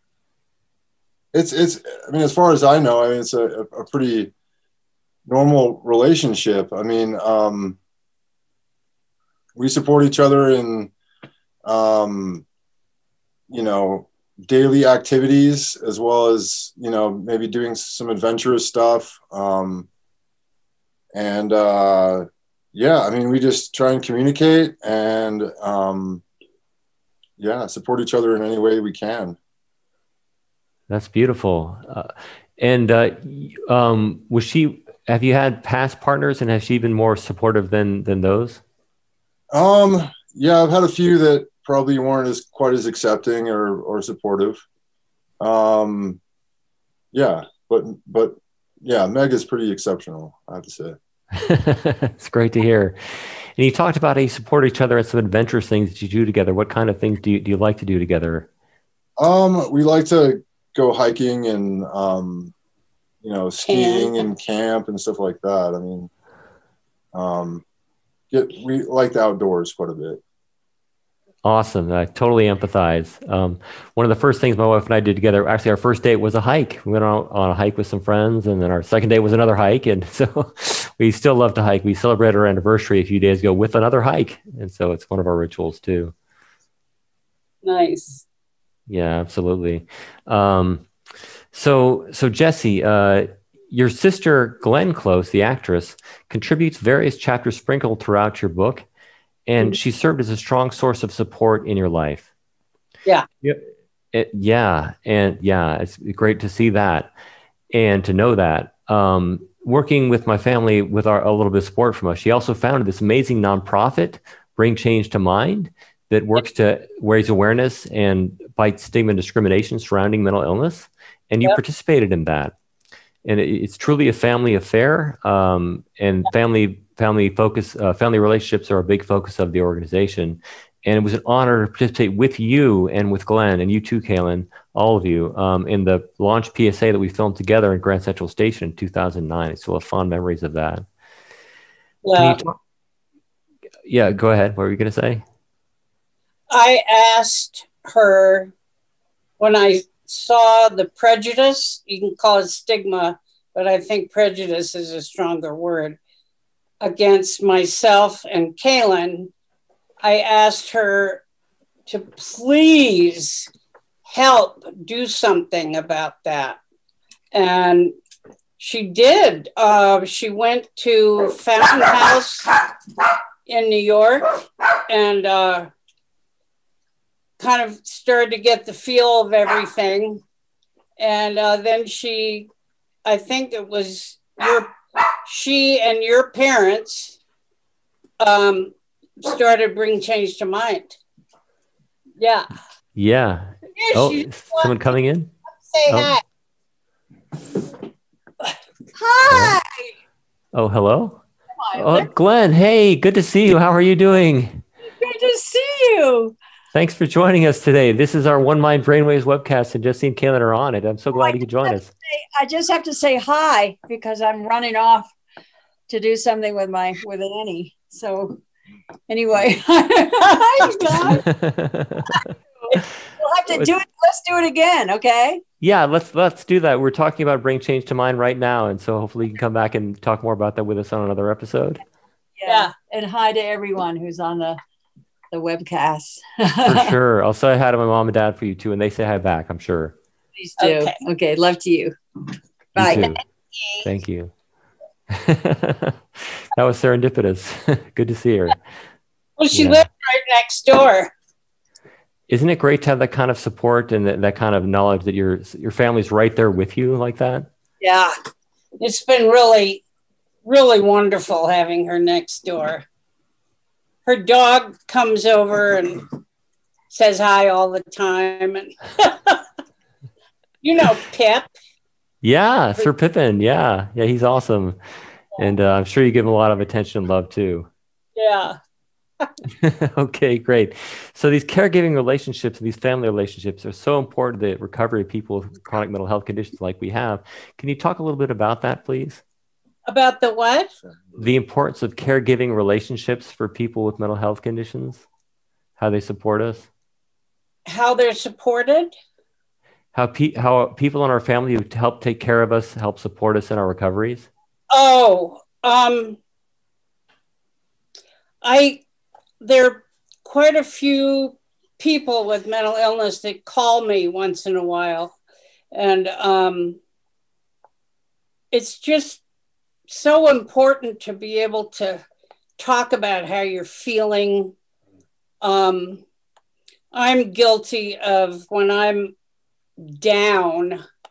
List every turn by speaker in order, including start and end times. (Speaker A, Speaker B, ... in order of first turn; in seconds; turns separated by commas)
Speaker A: 1.3-4.3, Speaker A: 5.3-7.8, Speaker A: 9.6-10.9, Speaker A: 11.7-12.4, Speaker A: 13.5-19.9, Speaker A: 21.1-26.2, Speaker A: 27.4-29.4, Speaker B: 30.9-38.6, Speaker A: 39.5-44.6, Speaker A: 45.4-46.2, Speaker A: 47.1-51.0, Speaker B: 51.4-58.5, Speaker A: 59.2-62.5, Speaker A: 63.2-66.1, Speaker C: 63.7-64.2, Speaker A: 67.1-67.6, Speaker A: 68.3-70.2, Speaker B: 71.4-86.1, Speaker C: 87.6-88.2, Speaker B: 88.9-90.8, Speaker B: 91.5-98.8, Speaker B: 99.5-102.3, Speaker B: 103.4-107.1, Speaker B: 107.7-122.5, Speaker B: 123.2-140.8, Speaker C: 142.0-142.4, Speaker B: 142.2-142.6, Speaker B: 143.9-145.2, Speaker C: 146.5-148.5, Speaker C: 149.4-156.0, Speaker C: 156.8-159.3, Speaker C: 160.0-161.2, Speaker C: 161.9-163.5, Speaker C: 164.1-166.6, Speaker C: 167.3-167.9, Speaker C: 168.6-172.5, Speaker C: 173.5-175.7, Speaker C: 177.4-180.2, Speaker C: 181.0-182.5, Speaker C: 183.1-184.7, Speaker C: 185.2-187.2, Speaker C: 188.2-191.0, Speaker C: 192.2-192.5, Speaker B: 193.0-195.3, Speaker C: 193.8-194.9, Speaker C: 195.7-196.2, Speaker B: 195.9-196.1, Speaker D: 199.0-199.6, Speaker B: 199.3-199.6, Speaker B: 200.5-201.2, Speaker D: 201.6-202.1, Speaker B: 201.7-204.6, Speaker D: 204.9-206.4, Speaker B: 206.7-211.9, Speaker D: 211.1-215.1, Speaker D: 215.9-218.4, Speaker D: 219.1-221.2, Speaker C: 220.4-221.2, Speaker B: 221.1-222.2, Speaker D: 222.1-225.4, Speaker B: 225.6-231.8, Speaker D: 232.4-234.6, Speaker C: 232.5-232.7, Speaker D: 235.3-237.0, Speaker B: 236.7-239.9, Speaker D: 240.4-241.9, Speaker C: 240.6-241.0, Speaker D: 242.8-243.2, Speaker B: 242.8-243.2, Speaker B: 243.8-244.3, Speaker B: 245.1-248.6, Speaker C: 249.4-251.1, Speaker B: 249.5-249.8, Speaker B: 252.3-257.5, Speaker D: 257.8-258.1, Speaker C: 258.8-259.8, Speaker C: 260.4-262.9, Speaker C: 264.1-266.0, Speaker C: 266.9-269.4, Speaker C: 270.6-271.5, Speaker B: 272.2-274.8, Speaker B: 275.4-277.7, Speaker C: 278.2-278.6, Speaker B: 279.6-289.2, Speaker C: 289.9-290.7, Speaker B: 291.2-295.0, Speaker B: 295.8-296.7, Speaker C: 297.7-298.9, Speaker B: 299.9-304.3, Speaker C: 304.7-306.2, Speaker C: 308.4-308.8, Speaker C: 309.4-315.2, Speaker C: 315.7-316.8, Speaker C: 318.5-319.2, Speaker C: 319.9-322.0, Speaker C: 322.6-324.5, Speaker C: 325.4-326.0, Speaker C: 326.9-329.1, Speaker C: 329.8-330.8